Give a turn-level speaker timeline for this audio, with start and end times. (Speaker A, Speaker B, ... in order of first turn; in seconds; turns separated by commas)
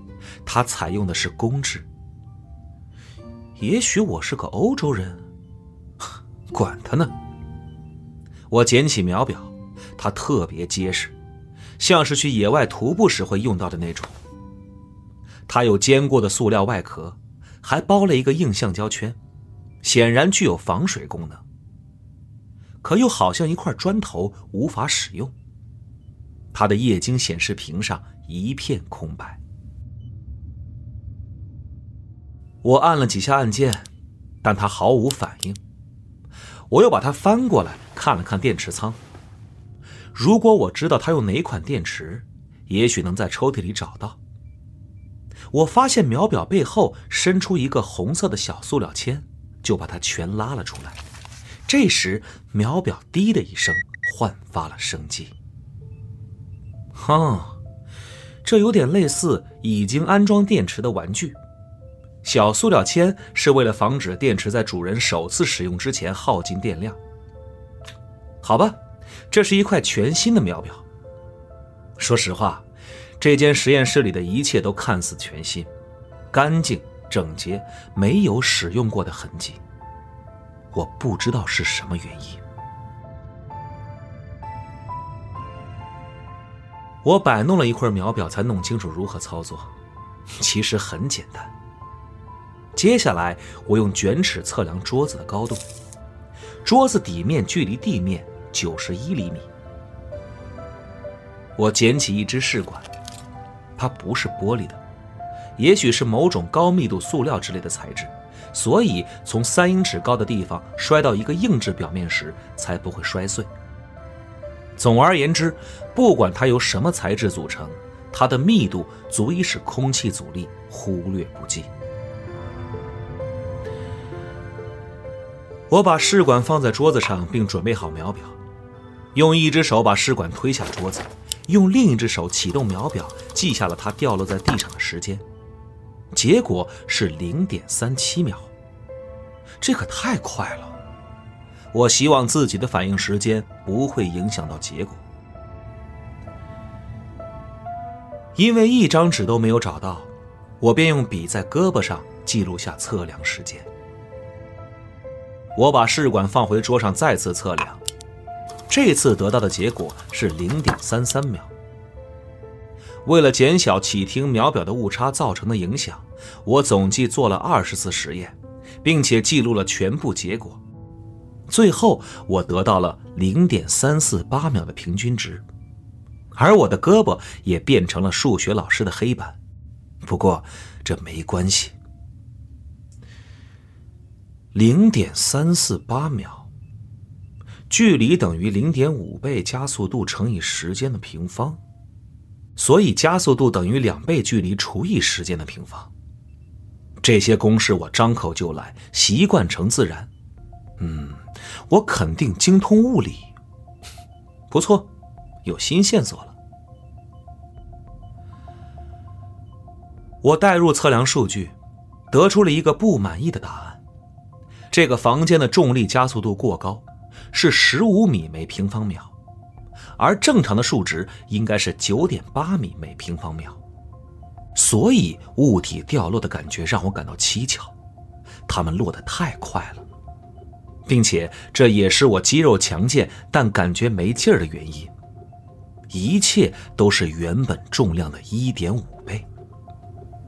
Speaker A: 0.5-1.9, Speaker A: 3.6-5.2, Speaker A: 6.5-7.1, Speaker A: 8.5-11.1, Speaker A: 11.8-14.1, Speaker A: 15.5-19.2, Speaker A: 19.8-21.4, Speaker A: 22.8-25.3, Speaker A: 26.5-29.4, Speaker A: 32.6-33.9, Speaker A: 34.4-35.6, Speaker A: 36.7-39.0, Speaker A: 40.1-44.2, Speaker A: 45.5-51.0, Speaker A: 51.7-55.3, Speaker A: 56.9-57.6, Speaker A: 58.4-61.4, Speaker A: 62.2-67.0, Speaker A: 68.4-70.8, Speaker A: 72.0-72.7, Speaker A: 73.2-75.7, Speaker A: 76.3-79.6, Speaker A: 80.7-82.4, Speaker A: 87.0-89.7, Speaker A: 90.3-91.5, Speaker A: 92.7-95.6, Speaker A: 96.6-99.5, Speaker A: 101.6-102.9, Speaker A: 103.8-104.8, Speaker A: 105.6-113.5, Speaker A: 114.8-121.7, Speaker A: 125.7-128.4, Speaker A: 129.1-135.2, Speaker A: 136.1-138.5, Speaker A: 139.6-140.8, Speaker A: 141.7-145.0, Speaker A: 148.3-153.7, Speaker A: 155.6-157.8, Speaker A: 158.7-161.5, Speaker A: 163.1-170.6, Speaker A: 171.5-175.4, Speaker A: 176.3-179.4, Speaker A: 180.0-181.8, Speaker A: 184.5-186.5, Speaker A: 187.7-191.6, Speaker A: 192.6-195.9, Speaker A: 197.0-200.1, Speaker A: 200.8-203.3, Speaker A: 204.5-204.9, Speaker A: 205.4-206.3, Speaker A: 210.2-211.6, Speaker A: 212.1-213.8, Speaker A: 214.7-219.1, Speaker A: 220.0-223.6, Speaker A: 224.6-227.7, Speaker A: 228.5-229.8, Speaker A: 230.9-234.9, Speaker A: 235.9-239.3